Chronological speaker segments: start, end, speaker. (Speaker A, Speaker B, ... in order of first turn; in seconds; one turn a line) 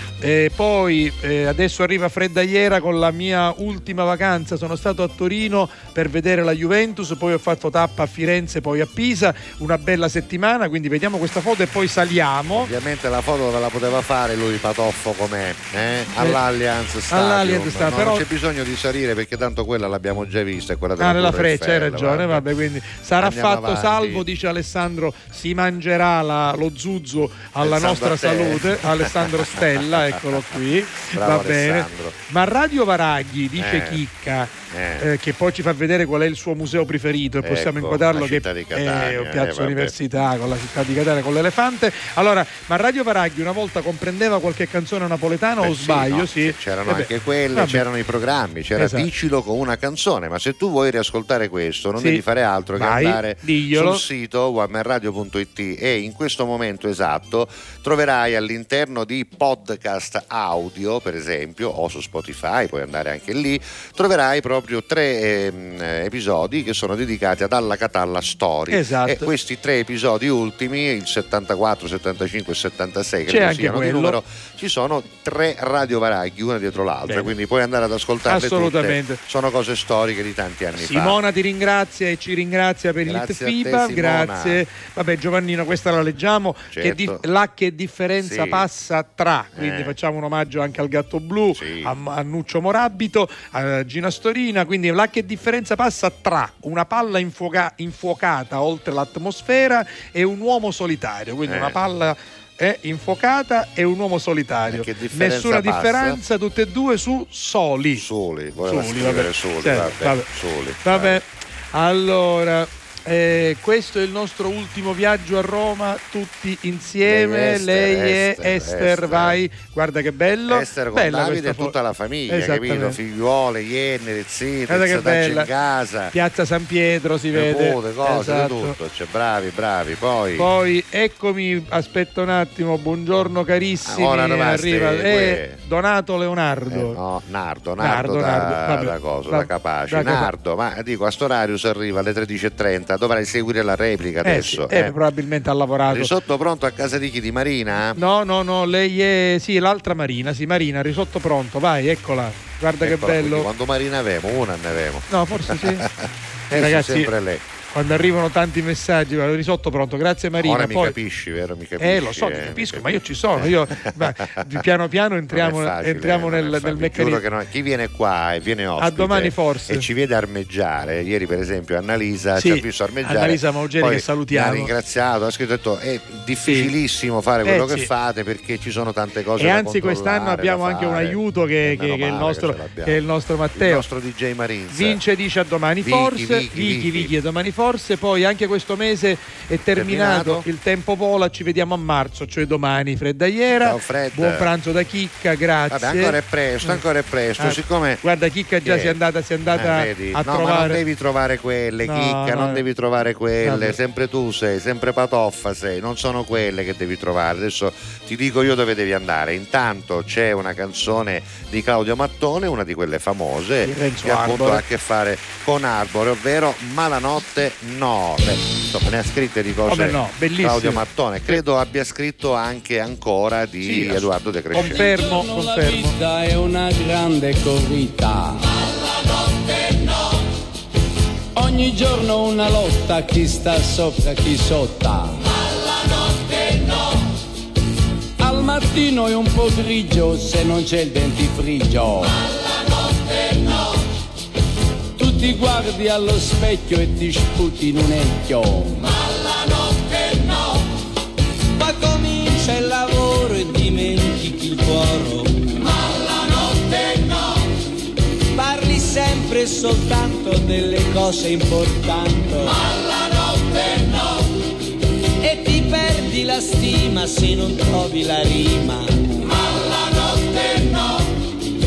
Speaker A: 0.2-12.7
Speaker B: 12.5-22.4
Speaker A: 17.1-18.2
Speaker A: 21.0-47.8
Speaker B: 23.2-24.2
Speaker B: 27.6-30.5
Speaker B: 31.1-32.2
Speaker B: 33.6-34.0
Speaker B: 34.7-35.1
Speaker B: 37.4-39.9
Speaker B: 45.6-81.2
Speaker A: 48.8-49.1
Speaker A: 52.0-52.2
Speaker A: 52.7-54.0
Speaker A: 68.7-69.3
Speaker A: 73.3-74.2
Speaker A: 77.1-77.3
Speaker A: 78.2-79.2
Speaker A: 80.7-108.1
Speaker B: 83.0-84.6
Speaker B: 86.7-87.2
Speaker B: 88.2-88.7
Speaker B: 89.5-89.9
Speaker B: 91.5-91.9
Speaker B: 101.5-101.8
Speaker B: 104.7-106.2
Speaker B: 108.0-111.2
Speaker A: 108.6-110.3
Speaker A: 110.8-121.7
Speaker B: 117.0-119.4
Speaker B: 120.5-126.1
Speaker A: 122.3-123.0
Speaker A: 124.7-125.5
Speaker A: 126.1-128.7
Speaker B: 127.3-130.5
Speaker A: 130.4-137.0
Speaker B: 133.8-135.6
Speaker B: 136.7-144.9
Speaker A: 137.8-140.3
Speaker A: 144.2-146.1
Speaker B: 145.9-148.0
Speaker A: 147.9-153.5
Speaker B: 152.8-157.4
Speaker A: 155.1-155.8
Speaker A: 156.5-157.1
Speaker A: 157.7-161.0
Speaker B: 160.4-164.6
Speaker A: 161.8-167.2
Speaker B: 165.3-183.0
Speaker A: 168.8-169.8
Speaker A: 172.3-174.7
Speaker A: 176.4-176.7
Speaker A: 177.4-177.9
Speaker A: 179.4-183.9
Speaker B: 183.5-185.0
Speaker A: 184.7-196.8
Speaker B: 185.8-187.1
Speaker B: 189.7-190.4
Speaker B: 193.6-194.5
Speaker B: 195.7-198.0
Speaker A: 197.4-200.8
Speaker B: 198.6-199.0
Speaker B: 199.5-224.8
Speaker A: 201.8-202.6
Speaker A: 203.4-203.8
Speaker A: 213.6-214.6
Speaker A: 219.7-220.8
Speaker A: 223.6-225.9
Speaker C: 224.6-228.4
Speaker C: 231.3-235.2
Speaker C: 238.2-242.2
Speaker C: 245.0-248.8
Speaker C: 251.5-255.5
Speaker C: 256.5-257.0
Speaker C: 258.3-262.7
Speaker C: 263.4-263.9
Speaker C: 265.2-269.1